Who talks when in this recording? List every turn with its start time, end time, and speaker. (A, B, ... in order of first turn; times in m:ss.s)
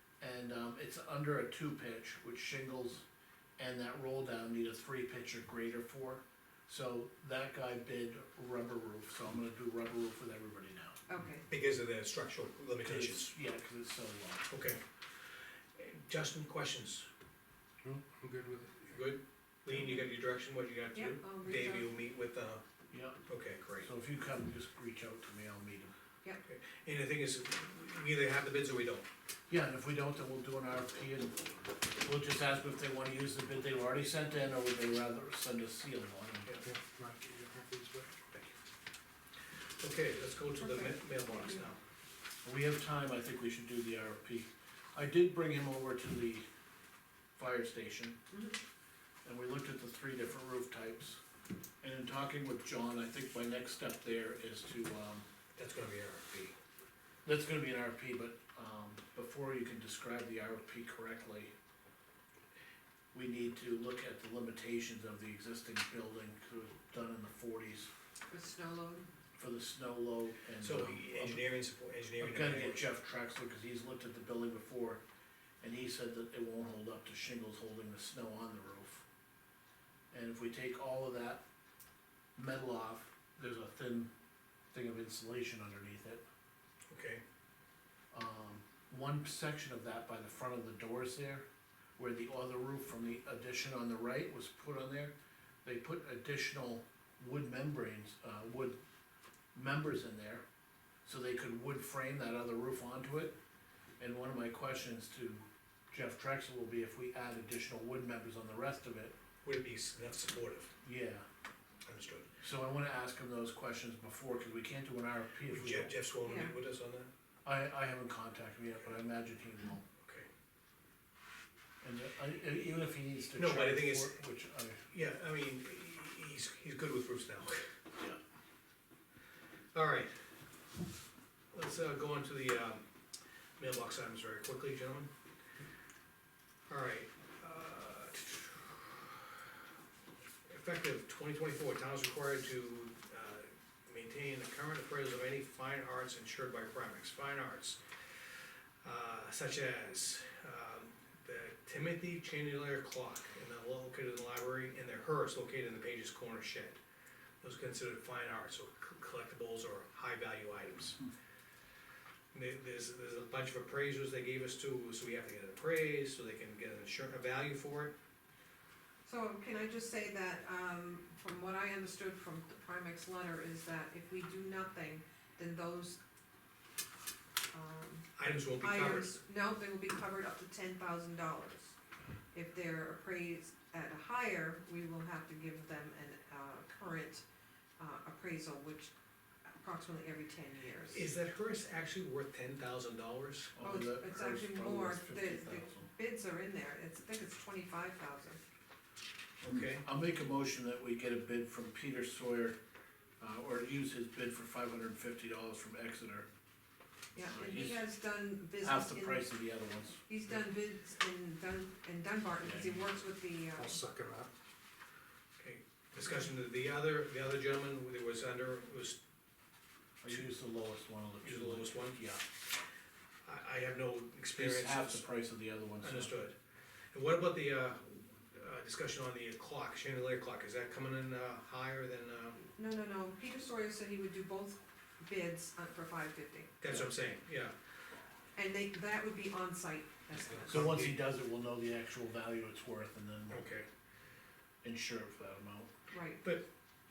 0:00.2-0:03.0 A
0:03.6-0:11.0 A
0:11.1-0:11.4 B
0:11.5-0:13.3 C
0:12.8-0:14.5 A
0:14.5-0:14.8 C
0:15.8-0:17.1 C
0:17.8-0:18.9 D
0:18.9-0:22.6 C
0:20.9-0:21.9 B
0:22.9-0:23.2 A
0:23.2-0:23.9 C
0:23.8-0:25.9 A
0:26.4-0:29.1 C
0:29.5-0:36.5 A
0:36.6-0:38.2 D
0:39.8-0:41.8 C
0:40.6-0:41.6 B
0:42.4-0:46.4 A
0:47.4-0:48.2 A
0:49.2-0:51.2 A
0:51.8-0:55.2 A
0:55.6-0:56.5 C
0:57.2-1:01.5 A
1:03.1-1:07.9 A
1:08.3-1:09.1 B
1:09.4-1:11.4 A
1:10.6-1:12.8 C
1:12.2-1:15.0 A
1:15.6-1:19.0 A
1:20.1-1:21.4 A
1:22.4-1:24.1 A
1:24.7-1:26.2 A
1:26.9-1:27.2 C
1:28.1-1:31.4 A
1:32.0-1:35.1 A
1:35.6-1:38.8 A
1:39.5-1:40.4 A
1:41.0-1:43.3 A
1:44.0-1:49.1 A
1:49.4-1:50.7 C
1:50.8-1:51.2 A
1:51.8-1:52.4 C
1:52.4-1:55.9 A
1:55.5-1:57.1 C
1:56.2-1:56.5 B
1:57.4-1:59.8 A
2:00.0-2:00.3 C
2:01.8-2:04.9 A
2:03.3-2:04.2 C
2:04.9-2:07.7 C
2:09.7-2:10.1 C
2:11.5-2:12.8 C
2:13.6-2:15.1 C
2:16.7-2:19.4 C
2:20.5-2:27.8 C
2:28.8-2:36.8 C
2:37.4-2:41.0 C
2:42.3-2:47.9 C
2:49.0-2:56.0 B
2:57.5-3:01.7 B
2:58.2-2:59.2 C
3:02.3-3:07.2 B
3:07.8-3:08.9 B
3:09.5-3:11.0 B
3:10.9-3:13.5 C
3:13.6-3:15.9 A
3:13.6-3:18.4 B
3:19.4-3:22.6 A
3:19.4-3:19.8 C
3:23.2-3:26.3 A
3:27.1-3:29.3 B
3:27.3-3:27.8 A
3:28.6-3:30.0 A
3:30.1-3:33.8 B
3:32.4-3:32.8 A
3:33.5-3:34.3 D
3:35.4-3:39.0 C
3:40.0-3:42.2 A
3:41.2-3:42.0 C
3:43.2-3:45.0 C
3:44.3-3:46.2 A
3:45.8-3:46.3 C
3:46.9-3:52.4 C
3:52.6-3:56.6 B
3:56.6-3:57.5 C
3:58.4-4:00.6 B
4:00.3-4:01.0 C
4:00.5-4:03.5 A
4:03.3-4:03.7 C
4:04.6-4:05.7 A
4:05.9-4:06.2 B